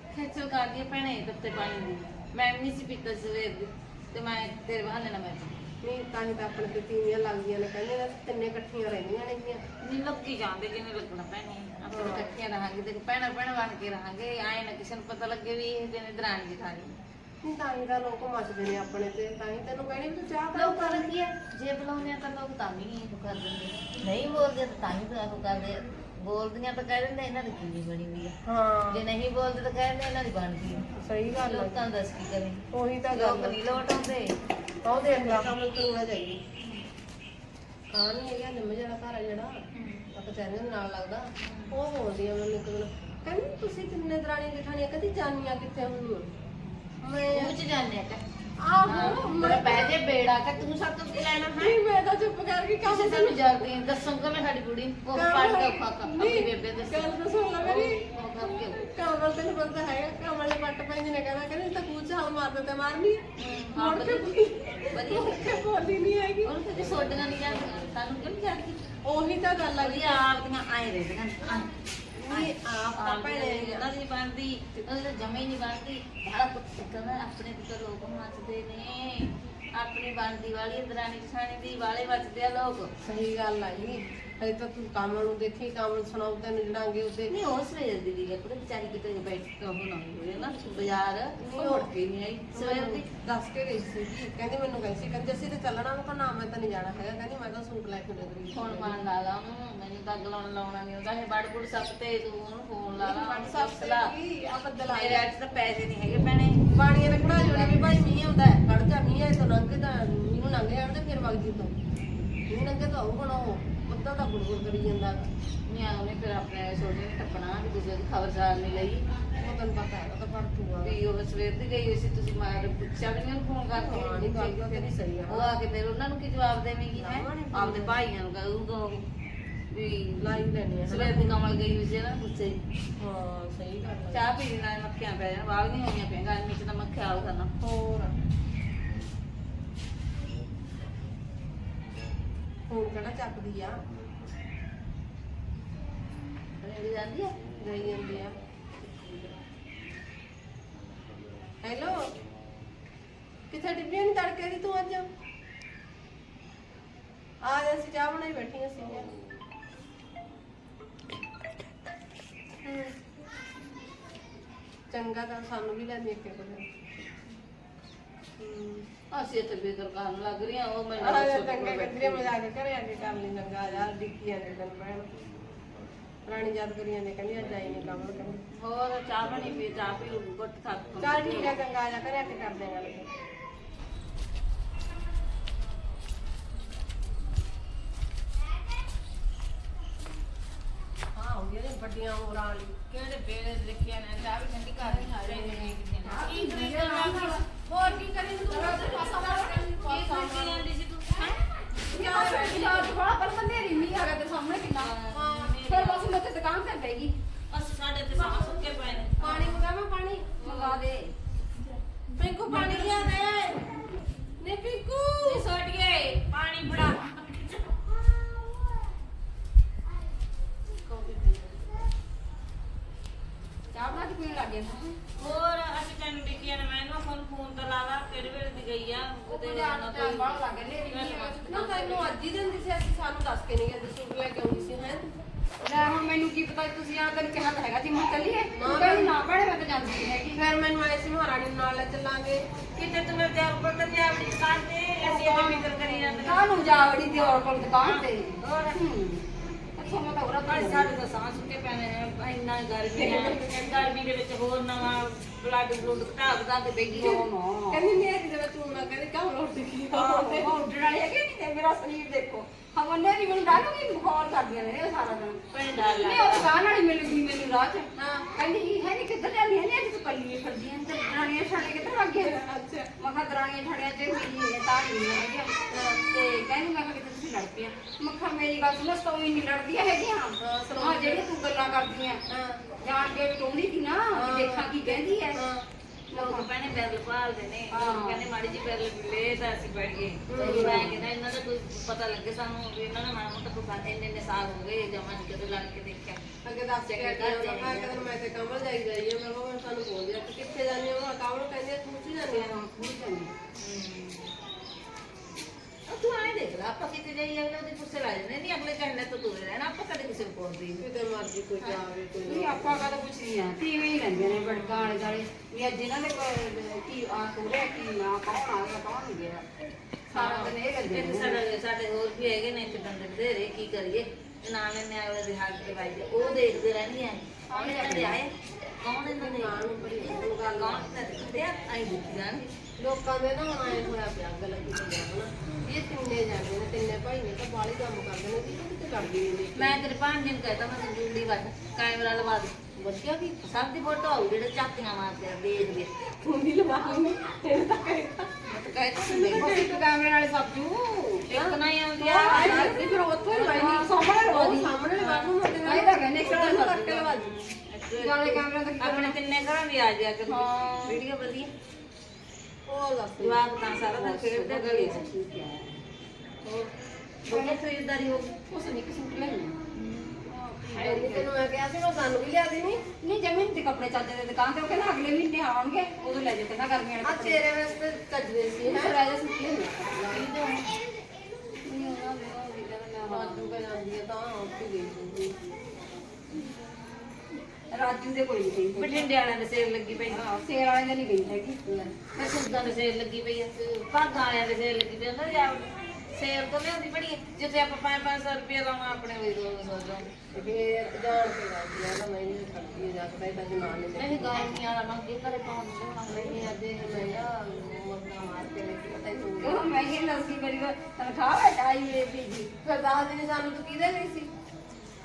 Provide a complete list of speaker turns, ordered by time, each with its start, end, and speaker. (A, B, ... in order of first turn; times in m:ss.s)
0:00.1-0:05.6 A
0:05.8-0:09.6 B
0:09.8-0:17.0 A
0:11.9-0:12.3 B
0:17.4-0:21.1 B
0:20.5-0:28.3 A
0:28.5-0:29.0 B
0:28.9-0:30.9 A
0:31.0-0:31.8 B
0:31.4-0:34.4 A
0:32.7-0:33.6 B
0:34.8-0:36.4 B
0:35.1-0:35.4 A
0:37.9-0:39.6 B
0:39.7-0:40.1 A
0:40.1-0:46.3 B
0:41.4-0:41.8 A
0:47.0-0:47.6 B
0:47.3-0:48.2 A
0:48.6-0:50.0 B
0:48.8-0:51.8 A
0:51.6-0:53.4 B
0:52.8-0:58.9 A
0:55.1-0:58.0 B
0:58.8-1:03.2 B
1:03.4-1:04.3 A
1:03.7-1:07.4 B
1:04.9-1:05.7 A
1:06.4-1:08.8 A
1:09.0-1:10.2 B
1:09.8-1:11.7 A
1:12.2-1:13.9 B
1:12.3-1:22.9 A
1:23.0-1:27.3 B
1:23.8-1:24.2 A
1:27.3-1:33.1 A
1:31.4-1:31.9 B
1:32.5-1:39.0 B
1:38.5-1:44.1 A
1:43.0-1:45.3 B
1:44.9-1:47.9 A
1:46.7-1:51.7 B
1:52.5-1:55.3 B
1:55.7-1:59.1 A
1:59.4-2:01.0 B
2:00.8-2:09.0 A
2:03.7-2:05.5 B
2:06.9-2:08.0 B
2:09.7-2:12.6 A
2:10.2-2:11.3 B
2:13.0-2:14.3 B
2:14.1-2:17.5 A
2:17.6-2:18.1 B
2:22.7-2:23.8 B
2:26.6-2:27.4 A
2:27.5-2:28.4 B
2:31.6-2:32.0 B
2:33.5-2:35.1 B
2:37.4-2:39.1 B
2:42.6-2:42.9 B
2:44.9-2:46.6 B
2:48.4-2:48.9 B
2:49.1-2:52.3 A
2:51.0-2:55.1 B
2:56.3-2:58.4 B
2:58.5-3:01.6 A
3:01.0-3:03.1 B
3:11.1-3:12.8 B
3:12.9-3:17.4 A
3:14.8-3:16.0 B
3:16.0-3:17.4 C
3:17.6-3:20.6 B
3:18.5-3:19.7 C
3:19.7-3:21.5 A
3:21.9-3:24.9 C
3:22.0-3:22.9 B
3:24.7-3:26.2 A
3:25.1-3:25.6 B
3:25.6-3:27.1 C
3:27.5-3:29.7 A
3:29.2-3:30.4 B
3:30.4-3:31.1 C
3:30.4-3:30.8 A
3:32.2-3:33.6 B
3:32.2-3:33.3 A
3:34.4-3:35.5 B
3:35.2-3:38.1 A
3:40.8-3:41.6 B
3:43.7-3:45.0 C
3:45.2-3:51.6 A
3:49.3-3:52.1 C
3:51.5-3:55.1 B
3:55.6-4:00.4 C
3:58.5-3:59.1 B
4:00.3-4:02.4 B
4:02.7-4:08.9 A
4:05.0-4:06.4 B
4:05.2-4:09.2 C
4:09.8-4:10.9 C
4:10.3-4:17.3 A
4:13.0-4:13.8 B
4:16.9-4:17.8 C
4:17.7-4:20.5 B
4:19.9-4:32.4 C
4:25.5-4:26.5 A
4:28.0-4:28.3 B
4:32.2-4:32.9 B
4:33.0-4:42.2 C
4:35.7-4:36.0 B
4:40.4-4:41.3 B
4:42.3-4:42.6 B
4:42.8-4:45.5 C
4:44.1-4:45.6 B
4:46.1-4:46.5 C
4:46.1-4:56.2 A
4:47.7-4:48.3 C
4:50.3-4:50.9 B
4:50.4-4:51.0 C
4:56.4-5:02.6 B
4:56.8-4:58.1 A
5:02.3-5:03.3 C
5:03.6-5:04.3 A
5:05.9-5:10.8 A
5:10.8-5:12.8 B
5:12.2-5:19.4 C
5:14.2-5:15.0 A
5:20.1-5:21.4 C
5:20.1-5:32.5 A
5:27.5-5:28.2 C
5:29.2-5:31.3 B
5:32.8-5:39.8 B
5:39.5-5:42.5 A
5:42.8-5:43.4 B
5:43.4-5:45.9 A
5:46.2-5:48.3 B
5:48.4-5:49.5 A
5:49.0-5:49.8 B
5:49.3-5:51.3 C
5:51.3-5:53.3 A
5:51.3-5:57.3 B
5:52.0-5:52.8 C
5:53.3-5:54.8 C
5:54.9-5:55.4 A
5:55.6-5:57.3 C
5:56.9-6:01.5 A
5:58.0-5:59.2 C
6:00.3-6:01.0 C
6:02.7-6:03.4 B
6:03.2-6:05.1 A
6:03.8-6:05.7 C
6:06.4-6:06.7 B
6:07.2-6:08.4 A
6:07.3-6:07.6 C
6:08.5-6:09.6 C
6:10.1-6:11.3 C
6:10.7-6:12.8 B
6:13.0-6:17.4 C
6:17.0-6:18.9 B
6:18.6-6:20.3 C
6:20.1-6:20.8 A
6:21.6-6:23.4 C
6:23.0-6:25.4 B
6:27.7-6:29.1 C
6:28.7-6:30.2 A
6:30.1-6:31.8 C
6:32.1-6:40.1 A
6:40.3-6:44.4 B
6:43.9-6:47.3 A
6:46.1-6:49.7 B
6:49.4-6:52.5 C
6:52.6-6:54.3 B